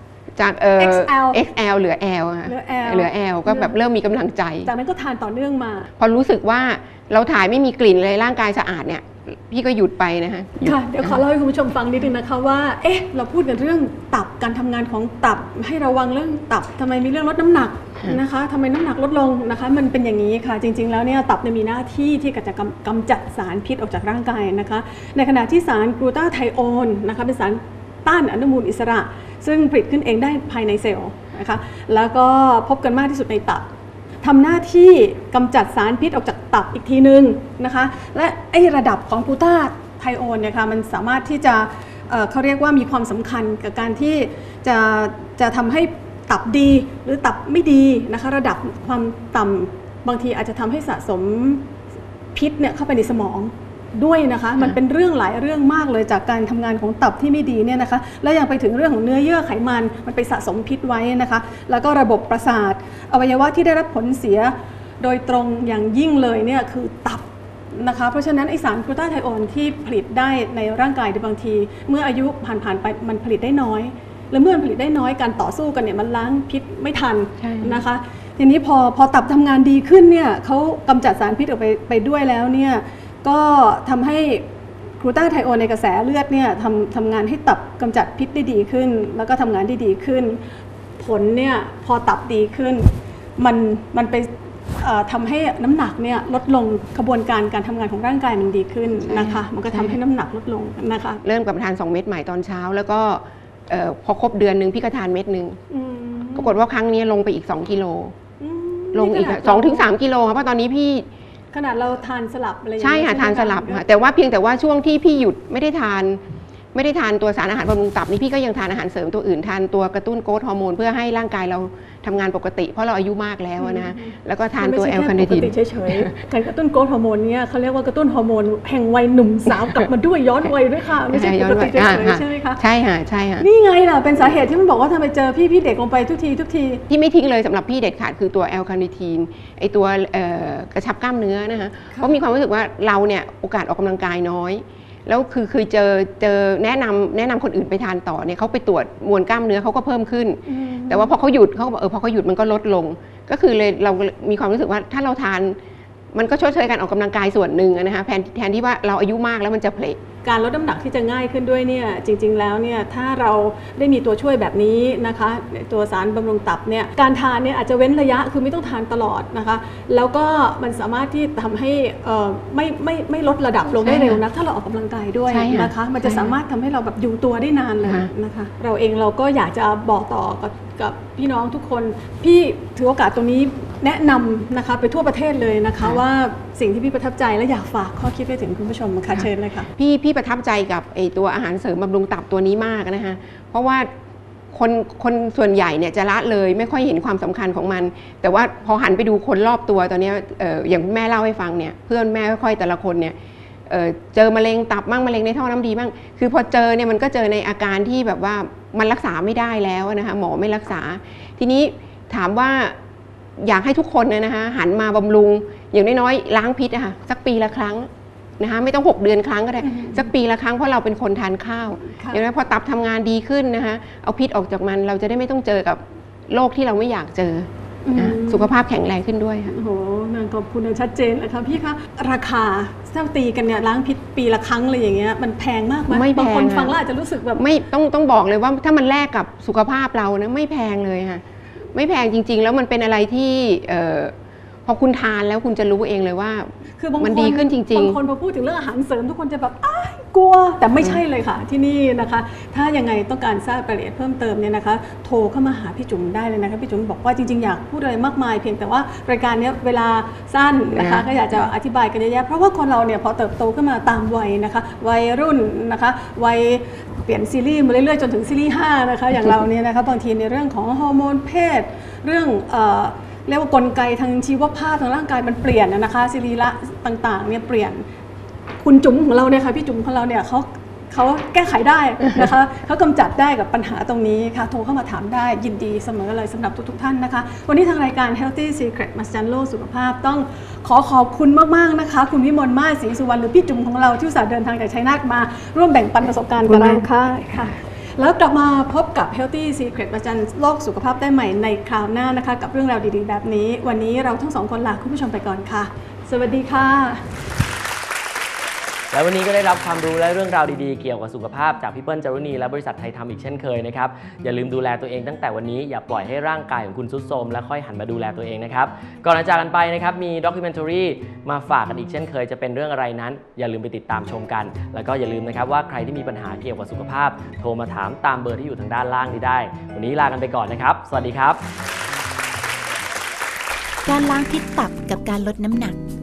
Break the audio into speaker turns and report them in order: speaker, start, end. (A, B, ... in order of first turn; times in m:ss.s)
0:00.4-0:04.7 A
0:00.8-0:01.4 B
0:02.4-0:03.7 B
0:04.6-0:05.9 B
0:06.0-0:11.2 A
0:10.6-0:33.6 B
0:34.2-0:51.7 B
0:52.3-1:24.5 B
1:17.4-1:17.8 A
1:25.0-1:30.4 B
1:31.0-1:41.2 B
1:39.0-1:40.0 A
1:41.2-1:45.6 A
1:45.7-1:46.6 B
1:46.3-1:48.1 A
1:48.4-1:49.9 B
1:48.9-1:51.1 A
1:51.5-1:53.8 B
1:52.8-1:56.2 A
1:56.7-2:06.2 A
2:03.6-2:12.6 B
2:11.1-2:13.4 A
2:13.4-2:16.8 B
2:16.9-2:35.6 A
2:30.5-2:31.1 B
2:36.1-2:40.0 A
2:40.2-3:09.7 B
2:53.8-2:54.2 A
2:55.3-2:56.4 A
2:57.8-2:58.1 A
3:09.1-3:13.9 A
3:14.5-3:23.2 A
3:23.7-3:32.8 A
3:33.4-3:49.5 A
3:39.6-3:40.0 B
3:42.0-3:42.2 B
3:47.8-3:48.5 B
3:49.5-3:57.4 B
3:55.9-3:56.8 A
3:57.4-4:04.1 A
4:04.6-4:08.0 A
4:06.8-4:37.8 B
4:20.7-4:21.1 A
4:38.6-5:07.0 B
5:08.9-5:31.4 C
5:33.8-5:35.8 D